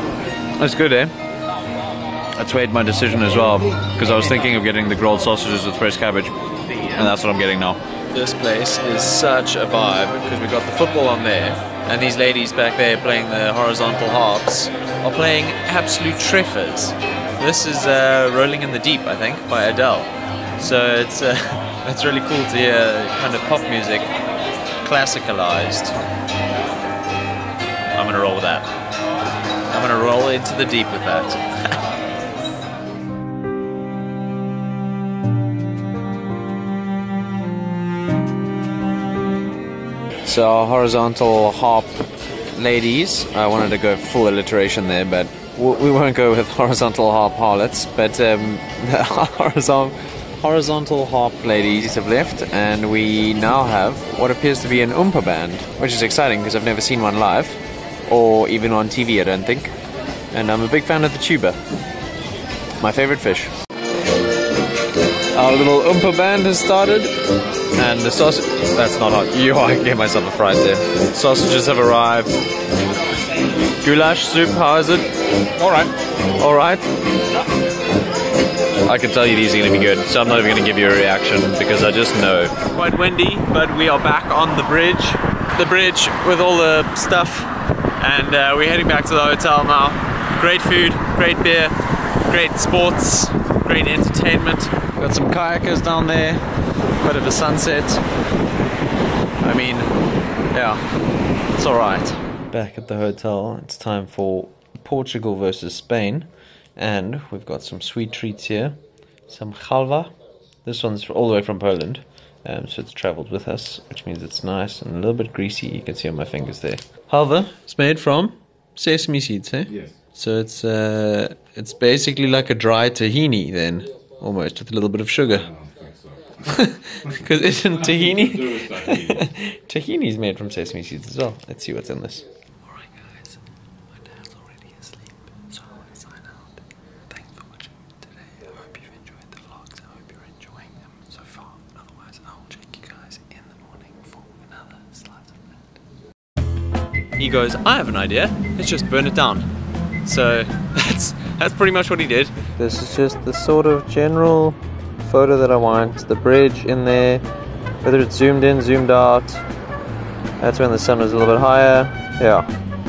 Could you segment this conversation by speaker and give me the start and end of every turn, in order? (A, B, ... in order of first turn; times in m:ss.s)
0:00.6-0:01.1 A
0:02.4-0:24.1 A
0:24.8-0:26.0 A
0:27.9-0:28.7 A
0:29.7-0:31.8 A
0:40.2-0:59.7 A
1:00.3-1:01.6 A
1:02.8-1:03.5 A
1:05.3-1:07.2 A
1:07.8-1:12.4 A
1:13.8-1:15.1 A
1:15.6-1:15.9 B
1:16.4-1:16.8 A
1:18.8-1:36.4 A
1:37.0-1:38.0 A
1:39.4-1:39.9 A
1:40.5-1:40.8 A
1:41.5-1:50.1 A
1:50.6-2:05.5 A
2:05.5-2:06.4 B
2:06.4-2:13.2 A
2:07.8-2:09.2 B
2:14.1-2:15.0 A
2:15.5-2:16.5 A
2:17.1-2:25.4 A
2:27.2-2:29.5 A
2:30.0-2:37.2 A
2:37.8-2:39.4 A
2:40.4-2:42.5 A